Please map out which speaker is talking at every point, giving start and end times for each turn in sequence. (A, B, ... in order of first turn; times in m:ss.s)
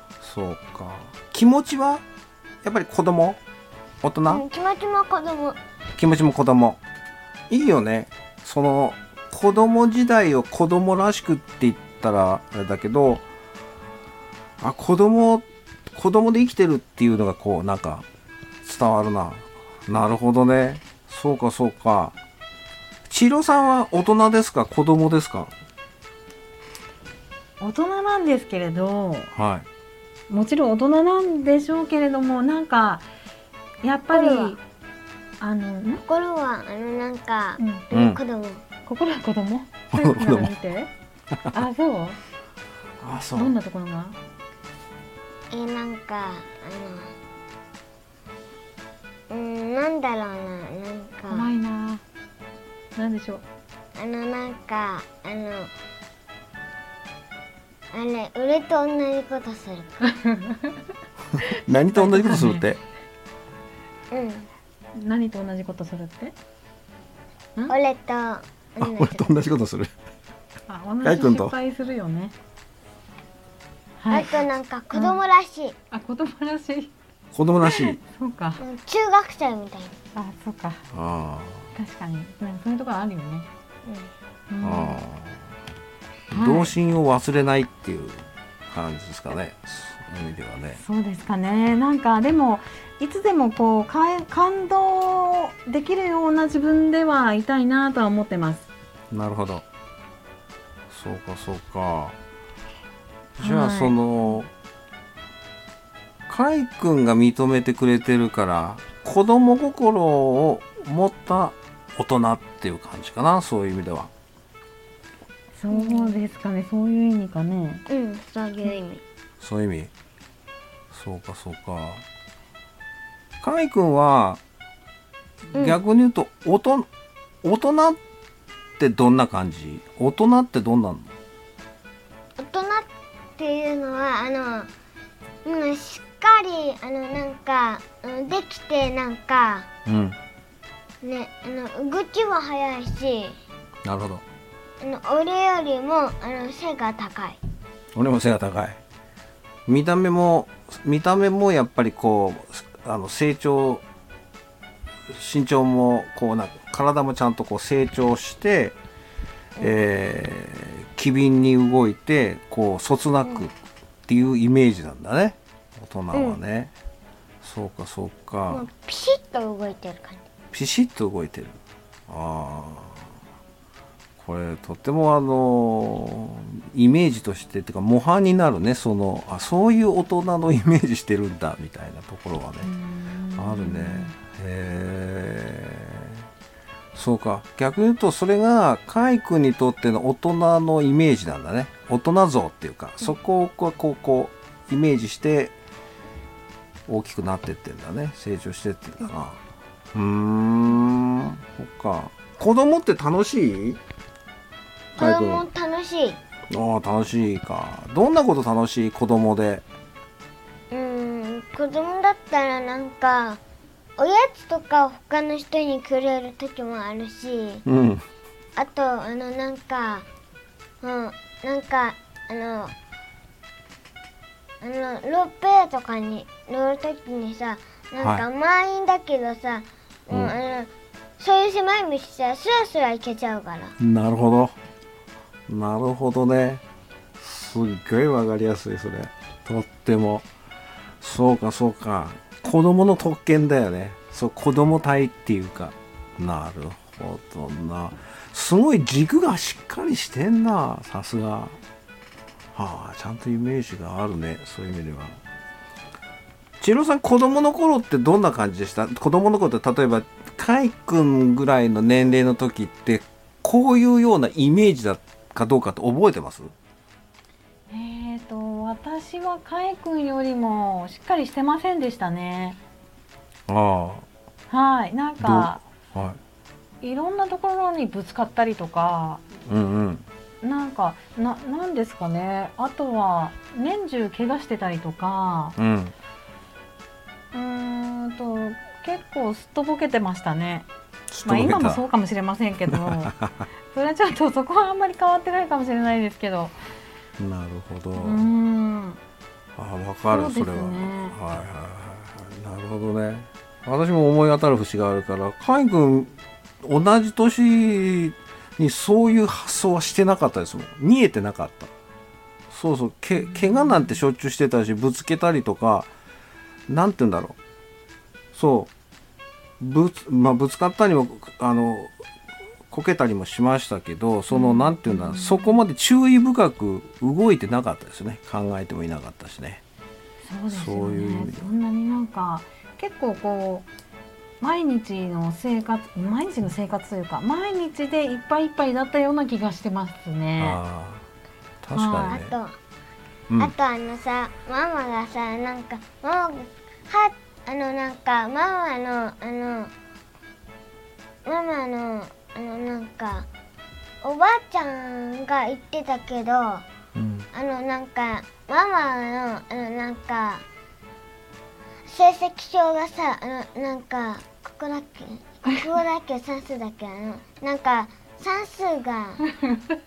0:00.2-0:02.0 A
0:02.6-0:03.4 A
0:04.0-0:04.4 A
0:04.3-0:05.6 B
0:06.0-0:06.8 A
0:07.5-0:13.2 A
0:14.6-0:18.0 A
0:18.6-0:22.1 A
0:23.1-0:25.5 A
0:27.6-0:29.3 C
0:29.3-0:29.7 A
0:30.3-0:33.1 C
0:33.8-0:34.6 C
0:34.1-0:34.6 B
0:35.4-0:36.0 C
0:36.0-0:38.6 B
0:37.6-0:37.8 C
0:37.9-0:38.2 A
0:38.8-0:40.9 C
0:39.9-0:40.5 A
0:41.5-0:42.2 C
0:43.0-0:43.5 A
0:43.3-0:44.2 C
0:45.5-0:47.1 B
0:49.3-0:51.5 B
0:51.3-0:52.0 C
0:53.0-0:53.4 C
0:54.0-0:55.7 B
0:57.9-1:00.0 B
1:00.2-1:00.8 C
1:01.3-1:02.8 A
1:01.7-1:02.6 C
1:04.1-1:04.5 B
1:04.9-1:06.3 C
1:07.7-1:09.3 B
1:08.8-1:09.9 A
1:10.7-1:12.3 C
1:11.0-1:11.5 A
1:14.0-1:15.2 C
1:14.1-1:15.7 B
1:15.9-1:16.9 C
1:17.3-1:18.0 A
1:17.6-1:18.6 C
1:18.6-1:20.0 B
1:20.1-1:20.8 C
1:20.9-1:21.7 A
1:21.7-1:23.4 C
1:23.8-1:24.1 B
1:24.5-1:25.0 C
1:24.6-1:25.4 A
1:26.3-1:30.8 A
1:26.3-1:26.7 C
1:30.8-1:38.7 C
1:39.1-1:39.6 A
1:40.9-1:42.2 A
1:43.4-1:44.0 C
1:43.4-1:44.5 A
1:46.3-1:54.1 A
1:55.6-1:57.8 C
1:55.7-1:56.2 B
1:57.9-1:59.0 B
1:59.4-1:59.9 A
2:00.9-2:02.0 A
2:03.4-2:04.4 A
2:05.5-2:06.9 A
2:07.4-2:08.0 A
2:08.8-2:11.1 A
2:12.4-2:14.7 B
2:15.4-2:19.7 B
2:19.8-2:20.2 A
2:21.0-2:23.4 B
2:23.8-2:24.2 A
2:24.8-2:27.4 B
2:27.9-2:28.8 A
2:29.7-2:33.8 A
2:35.1-2:38.8 A
2:39.6-2:43.5 A
2:44.1-2:46.7 A
2:46.1-2:46.4 B
2:47.4-2:48.7 A
2:48.5-2:50.2 B
2:50.5-2:53.0 A
2:54.2-3:02.7 A
3:02.6-3:04.1 C
3:03.4-3:06.2 A
3:06.9-3:15.5 A
3:16.9-3:19.4 A
3:19.9-3:23.8 A
3:24.9-3:25.4 A
3:25.0-3:26.2 B
3:26.5-3:29.6 A
3:30.7-3:33.4 B
3:34.0-3:37.6 B
3:37.6-3:38.0 A
3:38.6-3:40.0 B
3:40.8-3:42.7 B
3:44.6-3:53.8 B
3:48.0-3:48.2 A
3:53.8-3:54.5 A
3:55.5-3:56.6 A
3:57.2-4:00.3 A
4:01.0-4:11.6 A
4:12.5-4:15.2 A
4:16.6-4:26.5 A
4:27.7-4:32.6 C
4:33.5-4:34.0 A
4:34.5-4:35.6 C
4:35.2-4:36.2 A
4:36.8-4:39.2 C
4:39.4-4:40.0 A
4:40.4-4:45.6 C
4:45.6-4:45.9 A
4:47.3-4:50.7 C
4:51.1-4:51.8 A
4:51.2-4:53.1 C
4:52.7-4:53.4 A
4:53.7-4:56.5 C
4:57.2-4:58.3 A
4:58.0-4:59.0 C
4:59.6-5:11.7 A
5:00.1-5:01.2 C
5:12.5-5:15.9 A
5:16.7-5:17.4 A
5:18.3-5:18.7 A
5:19.6-5:21.9 A
5:22.7-5:29.6 A
5:24.3-5:25.5 C
5:30.2-5:33.7 C
5:30.5-5:31.4 A
5:34.4-5:40.6 C
5:40.4-5:41.0 A
5:41.6-5:42.3 A
5:41.7-5:42.2 C
5:42.1-5:42.6 B
5:43.4-5:49.7 B
5:51.2-5:53.3 B
5:54.0-5:56.6 B
5:56.9-5:57.3 A
5:57.3-6:00.4 B
6:01.9-6:09.2 B